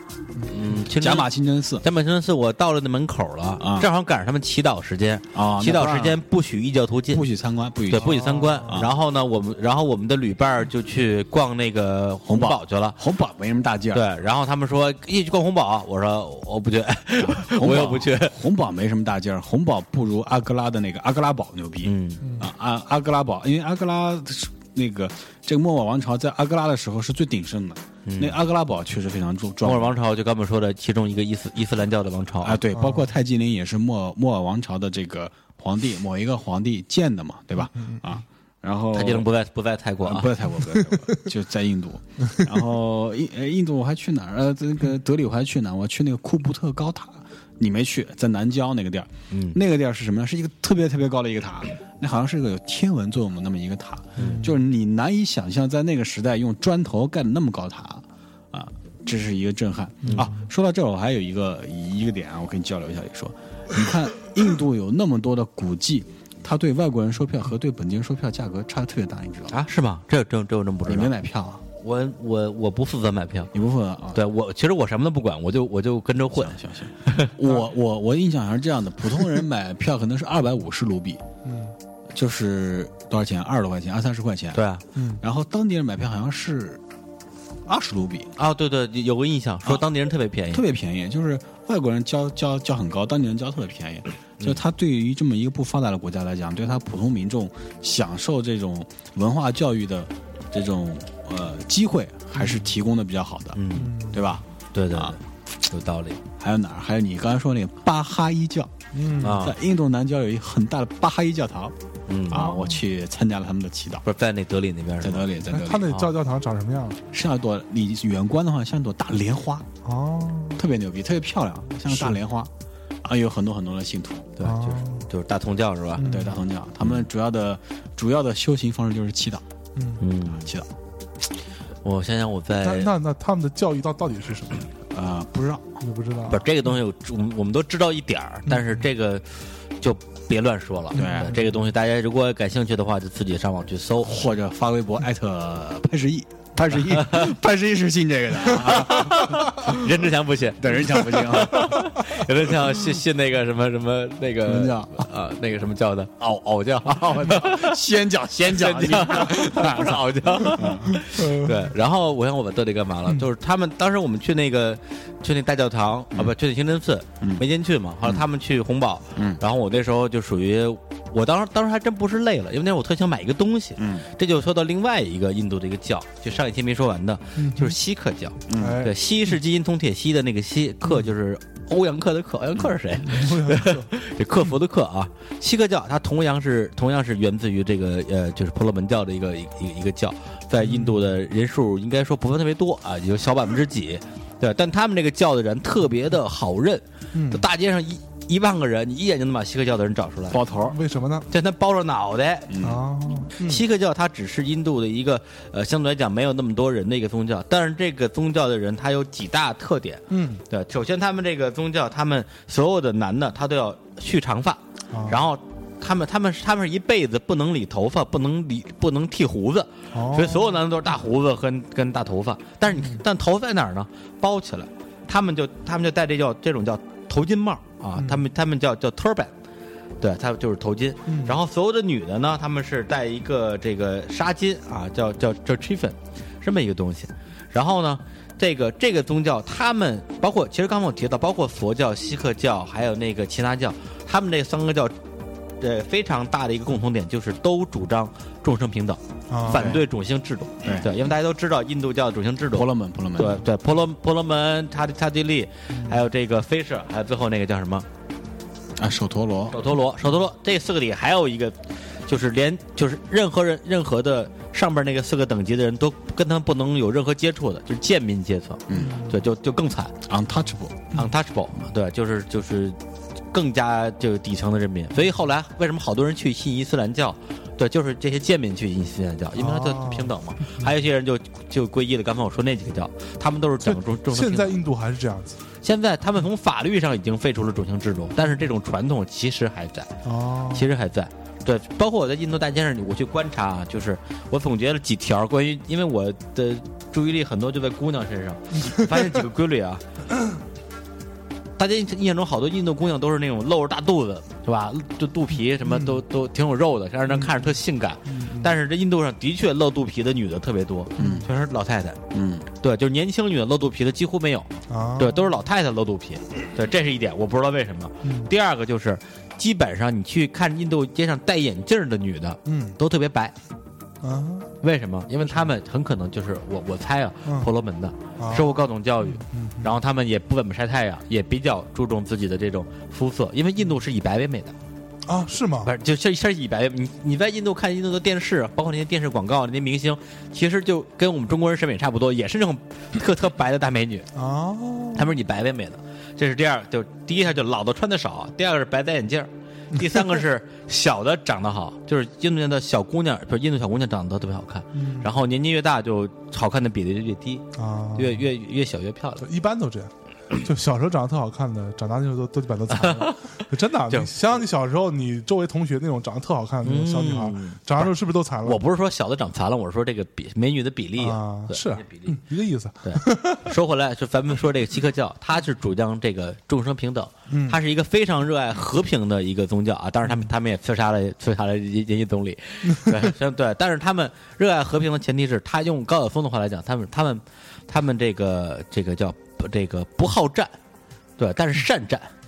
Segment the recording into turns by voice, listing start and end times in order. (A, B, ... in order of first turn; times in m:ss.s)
0:00.5-0:07.2 A
0:01.0-0:01.8 B
0:03.6-0:03.9 B
0:05.3-0:06.2 B
0:07.1-0:08.9 B
0:07.9-0:13.0 A
0:07.9-0:08.8 C
0:12.2-0:14.1 B
0:13.9-0:18.4 A
0:17.3-0:30.0 B
0:21.8-0:22.3 A
0:22.2-0:22.5 C
0:28.0-0:28.4 A
0:29.6-0:32.6 A
0:32.4-0:39.3 B
0:32.7-0:33.1 C
0:38.9-0:40.4 A
0:40.0-1:09.6 B
0:49.3-0:49.6 A
0:54.2-0:54.4 A
0:54.2-0:54.6 C
1:00.0-1:00.3 C
1:09.5-1:11.1 A
1:10.8-1:11.6 B
1:11.8-1:13.5 A
1:13.5-1:14.2 B
1:14.1-1:17.3 A
1:16.3-1:21.2 B
1:21.4-1:21.7 C
1:22.1-1:24.6 B
1:24.5-1:24.8 A
1:24.9-1:25.2 C
1:25.2-1:26.8 B
1:27.7-1:28.3 B
1:28.4-1:30.6 A
1:30.5-1:45.2 B
1:42.4-1:42.7 C
1:43.5-1:43.9 A
1:43.7-1:44.4 C
1:44.7-1:46.2 A
1:46.4-1:51.7 B
1:48.9-1:49.4 C
1:49.2-1:49.6 A
1:52.1-1:52.4 A
1:52.3-1:54.0 B
1:52.3-1:52.8 C
1:54.0-1:55.4 A
1:55.0-1:55.9 B
1:55.5-1:57.0 C
1:55.9-1:56.1 A
1:57.1-1:59.7 B
1:59.8-2:00.6 C
2:00.6-2:02.5 B
2:01.9-2:02.2 C
2:03.0-2:04.3 B
2:04.4-2:06.0 A
2:04.4-2:05.1 C
2:06.0-2:06.4 C
2:06.0-2:09.4 B
2:09.8-2:10.0 C
2:10.0-2:10.5 A
2:10.2-2:10.7 B
2:11.8-2:12.9 A
2:12.6-2:14.6 C
2:14.9-2:15.8 B
2:15.8-2:16.5 C
2:16.3-2:19.2 A
2:18.5-2:18.8 C
2:19.8-2:24.3 A
2:20.9-2:21.4 B
2:20.9-2:21.6 C
2:24.0-2:29.8 B
2:26.9-2:27.3 A
2:28.8-2:37.8 A
2:30.6-2:31.9 B
2:34.4-2:35.0 B
2:36.8-2:41.0 B
2:38.5-3:20.4 A
2:41.2-2:41.7 C
2:49.1-2:49.4 B
2:53.8-2:54.1 B
2:57.4-2:57.8 C
2:58.5-2:58.8 B
2:58.5-2:59.0 C
3:03.0-3:03.9 C
3:10.6-3:11.1 C
3:17.1-3:17.4 C
3:20.3-3:20.8 B
3:20.6-3:21.3 C
3:21.3-3:22.6 A
3:22.5-3:22.8 B
3:22.6-3:23.6 C
3:23.4-3:49.3 A
3:30.1-3:30.4 C
3:34.9-3:35.2 C
3:39.9-3:40.6 C
3:42.7-3:43.0 C
3:50.0-4:05.0 A
3:51.1-3:51.4 C
4:05.6-4:17.9 A
4:09.3-4:09.8 C
4:09.5-4:09.8 B
4:10.6-4:10.9 B
4:12.5-4:13.4 B
4:15.7-4:16.0 C
4:18.8-4:19.6 B
4:19.5-4:29.9 A
4:28.7-4:29.0 B
4:28.8-4:29.2 C
4:30.0-4:30.9 B
4:30.9-4:32.8 A
4:33.3-4:44.6 A
4:39.4-4:40.7 C
4:43.6-4:45.4 C
4:45.6-4:49.9 A
4:50.0-4:50.7 C
4:50.5-4:59.8 A
4:58.6-4:59.2 C
5:01.6-5:12.0 A
5:05.6-5:06.0 C
5:07.1-5:07.5 C
5:08.1-5:08.5 C
5:11.0-5:11.2 C
5:11.0-5:11.3 B
5:12.1-5:12.5 B
5:12.6-5:23.3 A
5:14.7-5:15.3 C
5:18.0-5:18.3 C
5:22.4-5:22.8 C
5:24.0-5:24.5 C
5:24.6-5:34.5 A
5:27.2-5:27.5 C
5:28.2-5:29.7 C
5:35.0-5:35.7 C
5:35.6-5:44.0 A
5:44.1-5:45.1 C
5:44.9-5:59.2 A
5:54.7-5:55.1 C
5:57.6-5:58.3 C
5:59.2-6:08.6 C
6:02.7-6:04.4 A
6:06.6-6:07.9 A
6:08.4-6:12.2 A
6:11.0-6:13.5 C
6:12.8-6:30.6 A
6:17.3-6:17.6 C
6:31.2-6:32.1 A